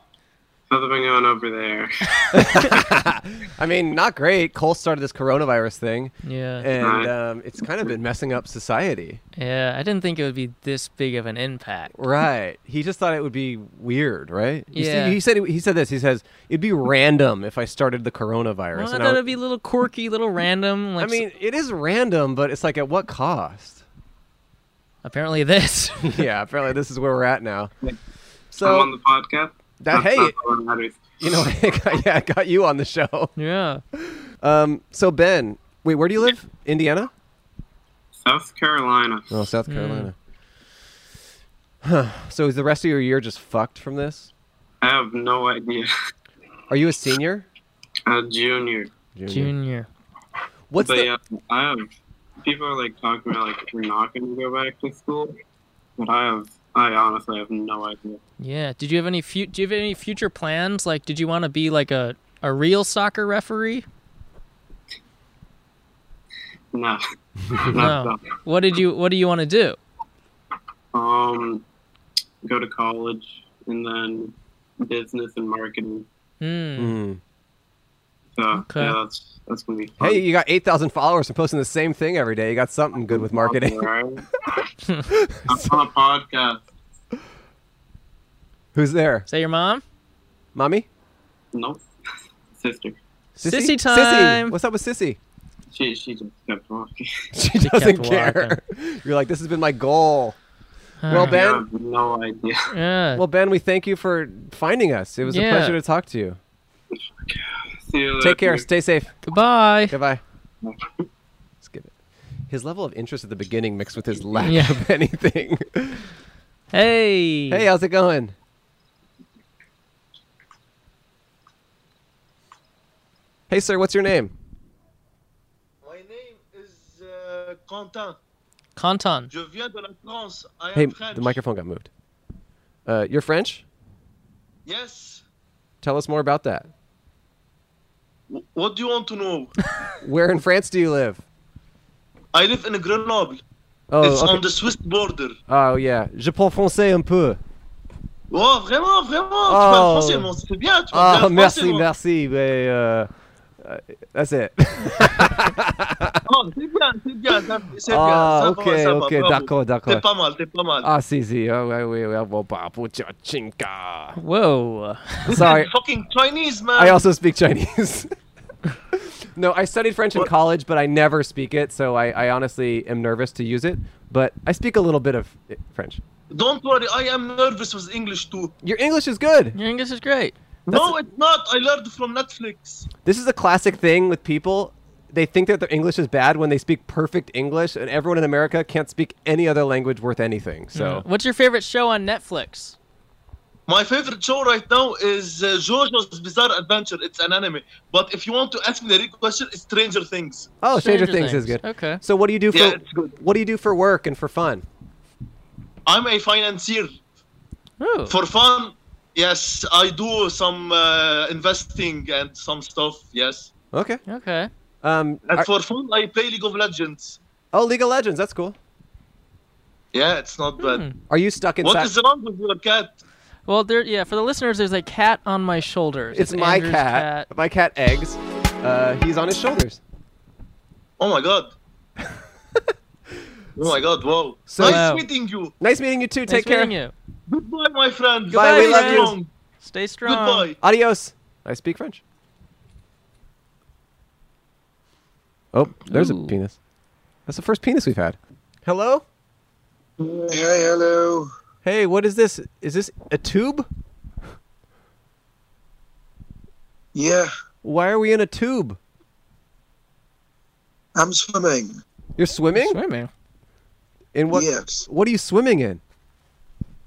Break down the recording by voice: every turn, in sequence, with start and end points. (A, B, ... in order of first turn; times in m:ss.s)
0:00.7-0:02.8 A
0:02.3-0:09.2 B
0:06.2-0:06.7 C
0:06.8-0:07.1 A
0:09.4-0:12.0 C
0:11.9-0:19.2 B
0:14.7-0:15.2 C
0:18.7-0:21.3 C
0:21.0-0:23.8 B
0:25.0-0:26.2 C
0:26.0-0:27.7 B
0:28.5-0:28.9 B
0:28.6-0:31.4 A
0:29.8-0:30.4 B
0:31.2-0:33.3 B
0:33.4-0:33.8 C
0:33.9-0:37.1 B
0:38.1-0:39.4 A
0:39.3-0:40.1 B
0:39.7-0:40.1 C
0:41.8-0:44.3 B
0:44.8-0:45.9 A
0:46.7-0:47.4 B
0:48.0-0:48.9 A
0:49.1-0:49.5 B
0:49.3-0:49.9 C
0:50.7-0:51.1 B
0:50.8-0:51.9 A
0:52.4-0:55.4 A
0:56.0-0:58.2 A
0:58.4-1:03.8 C
1:06.7-1:08.2 A
1:07.7-1:09.8 C
1:10.9-1:11.6 A
1:12.4-1:16.0 A
1:16.4-1:17.0 C
1:16.8-1:17.2 B
1:18.3-1:20.2 A
1:18.5-1:19.0 C
1:20.0-1:23.9 B
1:23.1-1:24.2 A
1:25.1-1:25.7 B
1:25.5-1:26.6 A
1:28.7-1:29.2 B
1:29.3-1:29.8 C
1:30.5-1:30.9 B
1:31.5-1:31.8 A
1:32.5-1:33.0 A
1:33.4-1:35.2 B
1:33.4-1:34.6 C
1:35.7-1:37.3 A
1:37.3-1:40.4 B
1:37.6-1:38.6 C
1:41.0-1:41.4 C
1:41.1-1:41.6 B
1:41.1-1:42.7 A
1:42.7-1:43.2 C
1:43.1-1:46.4 B
1:45.3-1:45.8 C
1:47.2-1:48.7 A
1:48.2-1:49.2 B
1:49.2-1:50.0 C
1:49.9-1:50.2 B
1:50.6-1:51.0 A
1:51.6-1:51.9 B
1:52.5-1:56.1 B
1:54.4-1:54.8 C
1:56.7-1:57.6 C
1:57.5-1:58.3 B
2:03.5-2:04.3 B
2:05.8-2:08.2 D
2:08.8-2:09.3 C
2:09.3-2:11.4 D
2:10.7-2:11.9 B
2:12.8-2:13.6 B
2:14.6-2:15.2 D
2:15.8-2:16.7 B
2:18.3-2:19.5 D
2:20.0-2:21.2 B
2:22.3-2:23.4 D
2:23.9-2:24.5 B
2:24.0-2:25.4 D
2:25.5-2:27.4 B
2:28.3-2:31.9 D
2:29.4-2:36.2 B
2:36.2-2:40.9 D
2:37.8-2:40.0 B
2:40.8-2:44.2 B
2:44.1-2:45.5 C
2:45.2-2:45.7 B
2:45.3-2:47.0 D
2:46.7-2:48.1 B
2:48.9-2:56.0 B
2:56.3-2:58.5 D
2:58.6-2:59.6 B
2:59.5-3:00.4 C
3:00.7-3:02.9 D
3:00.7-3:01.0 B
3:03.0-3:11.0 B
3:10.7-3:12.8 C
3:13.7-3:20.5 D
3:20.6-3:24.6 B
3:20.7-3:22.0 C
3:22.5-3:23.2 D
3:25.8-3:27.0 D
3:27.8-3:28.2 C
3:28.1-3:33.5 D
3:33.7-3:34.0 B
3:34.1-3:34.5 C
3:34.8-3:35.5 B
3:35.3-3:37.2 D
3:37.5-3:38.6 B
3:39.9-3:40.8 D
3:40.6-3:40.9 C
3:41.1-3:41.9 B
3:41.6-3:42.9 D
3:43.5-3:47.3 C
3:46.1-3:49.8 B
3:51.0-3:51.5 D
3:53.6-3:55.5 D
3:54.5-3:54.9 B
3:54.6-3:55.1 C
3:55.6-3:56.7 B
3:56.3-3:56.9 C
3:57.3-3:59.3 D
3:58.3-4:00.5 C
3:58.3-3:59.2 B
4:00.0-4:00.6 D
4:00.6-4:02.0 B
4:05.5-4:06.6 B
4:05.9-4:06.4 C
4:07.3-4:09.0 B
4:10.0-4:11.3 E
4:11.6-4:13.7 B
4:16.9-4:17.3 E
4:17.6-4:18.8 B
4:20.9-4:21.8 E
4:22.2-4:22.8 B
4:22.5-4:23.1 C
4:24.1-4:25.8 B
4:24.3-4:24.8 E